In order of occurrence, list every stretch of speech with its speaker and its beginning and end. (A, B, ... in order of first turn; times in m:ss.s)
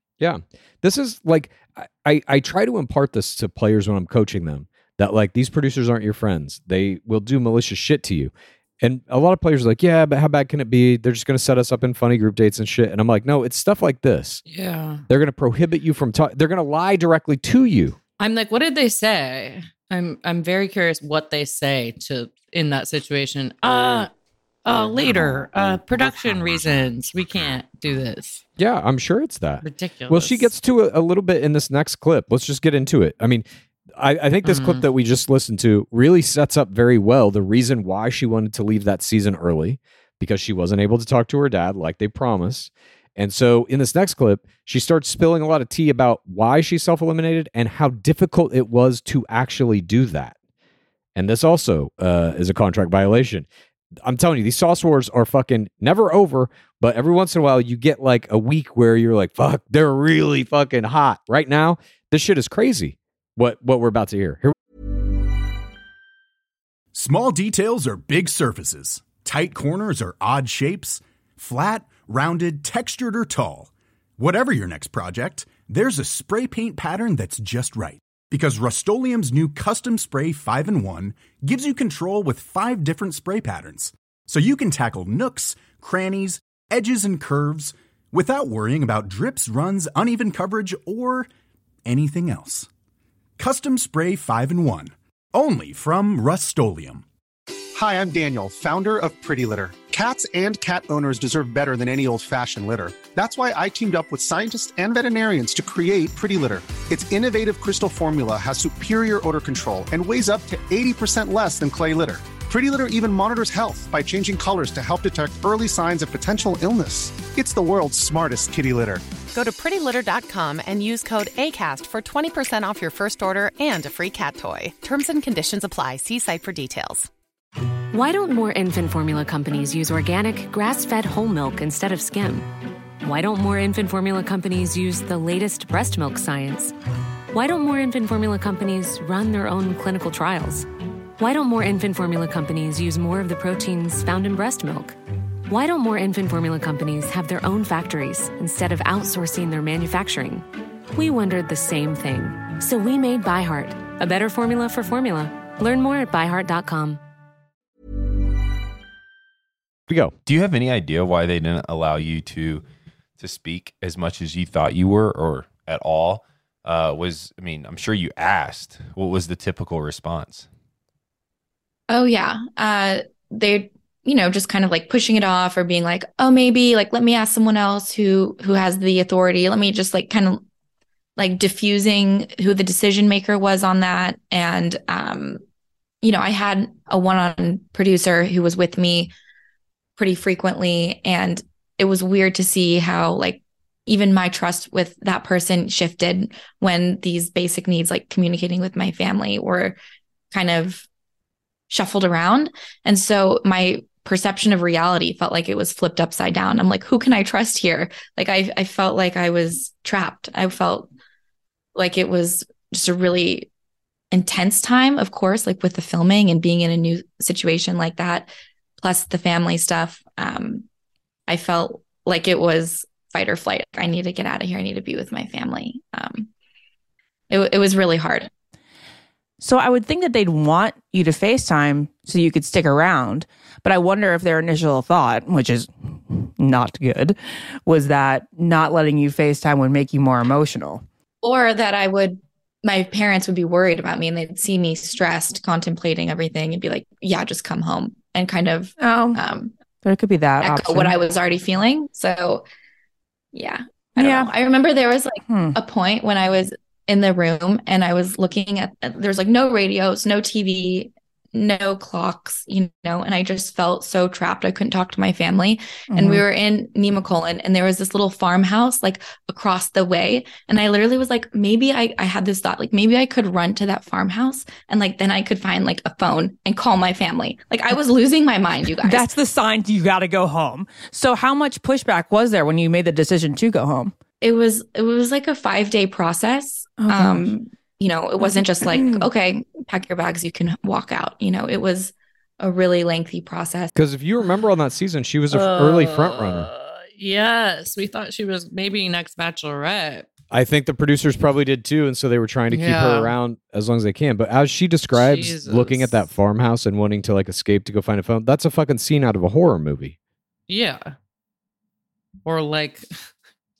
0:00.2-0:14.4 A
0:14.5-0:15.0 B
0:15.1-0:18.0 A
0:18.2-0:24.1 B
0:24.6-0:28.4 B
0:28.6-0:33.4 A
0:29.6-0:30.5 B
0:34.0-0:50.3 A
0:34.4-0:34.8 B
0:51.2-0:53.4 A
0:54.0-1:04.5 A
1:06.9-1:31.3 C
1:31.8-1:32.7 C
1:33.4-1:37.0 C
1:37.7-1:59.0 D
1:59.3-2:07.1 E
2:07.9-2:12.5 F
2:13.0-2:16.7 F
2:17.3-2:20.6 F
2:21.2-2:25.0 F
2:25.5-2:37.0 F
2:39.9-2:40.1 A
2:40.2-2:42.6 G
2:43.2-2:50.5 G
2:51.9-3:00.4 H
3:01.2-3:05.4 H
3:06.0-3:09.1 H
3:10.0-3:19.8 H
3:20.3-3:20.8 H
3:21.7-3:30.9 H
3:31.7-3:33.5 H
3:34.1-3:40.6 H
3:41.3-3:46.3 H
3:47.3-3:48.3 H
3:49.4-4:00.8 I
4:01.2-4:09.5 H
4:08.8-4:09.2 I
4:09.8-4:11.0 I
4:10.4-4:12.4 H
4:13.3-4:39.1 H
4:14.0-4:14.3 I
4:15.3-4:15.6 I
4:25.9-4:26.2 I
4:38.8-4:43.9 I
4:44.2-4:53.7 H
4:46.8-4:47.4 I
4:48.2-4:49.1 I
4:53.7-4:56.5 A
4:55.3-5:00.1 B
5:00.3-5:09.9 A
5:02.5-5:03.1 B
5:04.9-5:06.0 B
5:10.5-5:10.9 B
5:12.2-5:12.9 B